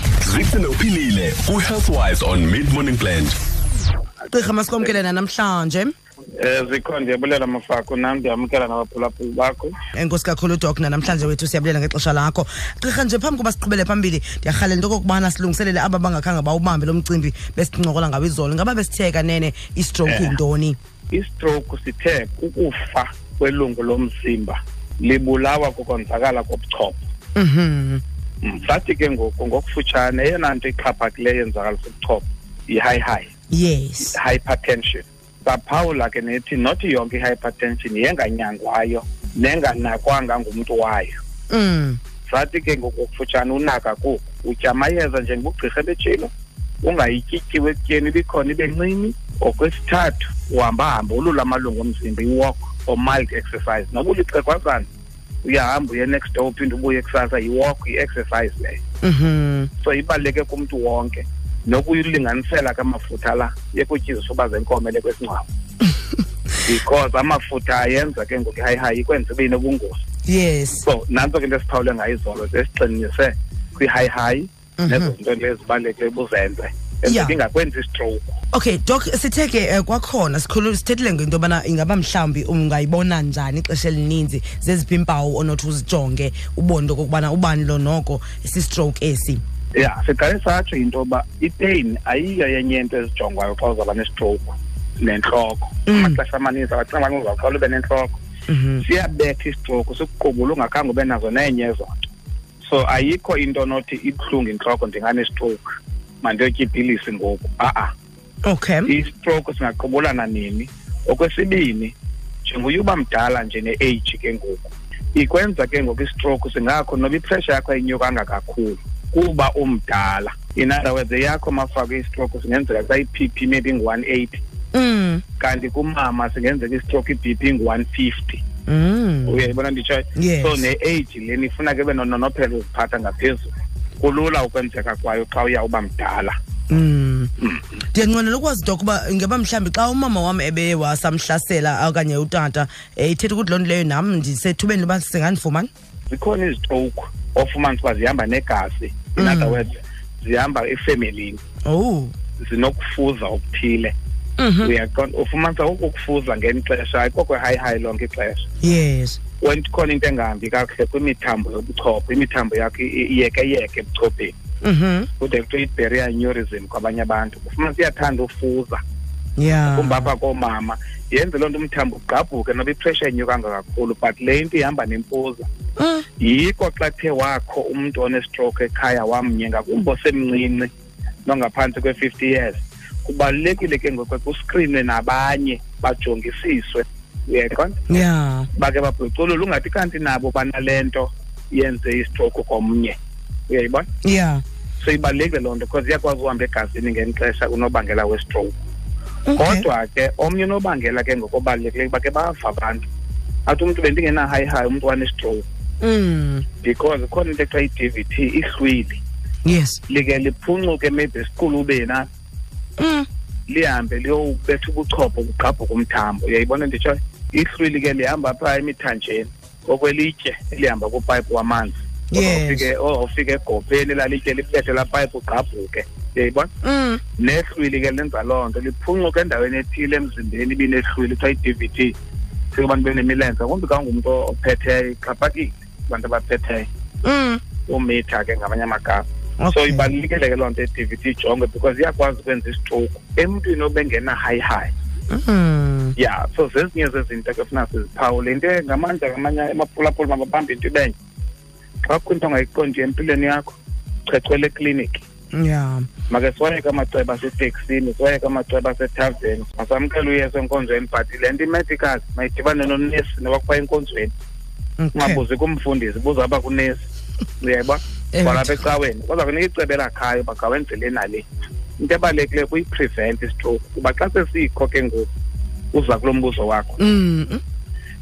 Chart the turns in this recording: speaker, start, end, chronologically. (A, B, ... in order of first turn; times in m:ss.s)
0:00.2-0:03.4 A
0:04.3-0:05.9 B
0:06.4-0:09.7 C
0:09.9-0:20.8 B
0:20.0-0:20.4 C
0:21.1-0:27.0 C
0:27.4-0:28.0 B
0:28.4-0:33.3 C
0:33.5-0:34.1 B
0:34.0-0:41.2 C
0:41.5-0:42.0 B
0:42.3-0:46.3 C
0:46.8-0:54.9 C
0:55.4-0:58.8 C
0:59.0-0:59.7 B
0:59.8-1:05.5 C
1:06.6-1:10.0 C
1:10.3-1:10.8 B
1:10.8-1:18.4 C
1:14.8-1:15.1 B
1:17.0-1:17.4 B
1:18.5-1:29.4 B
1:29.7-1:38.2 C
1:35.9-1:36.2 B
1:38.5-1:38.8 B
1:38.8-1:41.9 C
1:42.6-1:45.6 C
1:46.2-1:47.9 C
1:48.4-1:48.9 B
1:48.9-1:51.9 C
1:52.4-2:04.4 C
2:04.7-2:05.2 B
2:05.4-2:08.4 C
2:08.7-2:09.5 B
2:09.2-2:16.4 C
2:10.2-2:10.6 B
2:16.7-2:17.3 B
2:17.4-2:17.8 C
2:17.9-2:25.7 B
2:26.1-2:31.4 C
2:29.2-2:29.6 B
2:31.6-2:32.1 B
2:32.4-2:33.9 C
2:34.4-2:34.7 B
2:34.6-2:38.5 C
2:38.6-2:39.2 B
2:39.4-2:44.4 C
2:44.6-2:45.1 B
2:45.2-2:48.8 C
2:49.4-2:50.1 B
2:49.7-2:55.5 C
2:55.8-2:56.0 B
2:56.2-3:00.7 C
3:01.2-3:07.9 C
3:07.9-3:08.5 B
3:08.5-3:13.0 C
3:13.5-3:13.9 C
3:14.0-3:14.4 B
3:14.8-3:18.6 C
3:19.3-3:19.7 B
3:19.4-3:22.8 C
3:23.5-3:25.4 C
3:25.8-3:26.4 B
3:26.6-3:29.0 C
3:29.4-3:29.8 B
3:29.9-3:32.1 C
3:32.8-3:33.1 B
3:33.5-3:46.5 C
3:42.1-3:42.7 B
3:46.6-3:47.0 B
3:47.2-3:52.0 C
3:52.5-3:56.7 C
3:57.0-3:57.4 B
3:57.7-4:04.7 C
3:59.4-3:59.8 B
4:05.1-4:06.0 B
4:06.0-4:11.0 C
4:11.8-4:13.5 C
4:14.1-4:15.0 C
4:15.3-4:15.9 B
4:16.1-4:24.1 C
4:24.8-4:25.2 B
4:25.0-4:26.8 C
4:27.4-4:31.2 C
4:28.1-4:28.6 B
4:31.8-4:35.1 C
4:35.7-4:36.8 C
4:36.8-4:37.4 B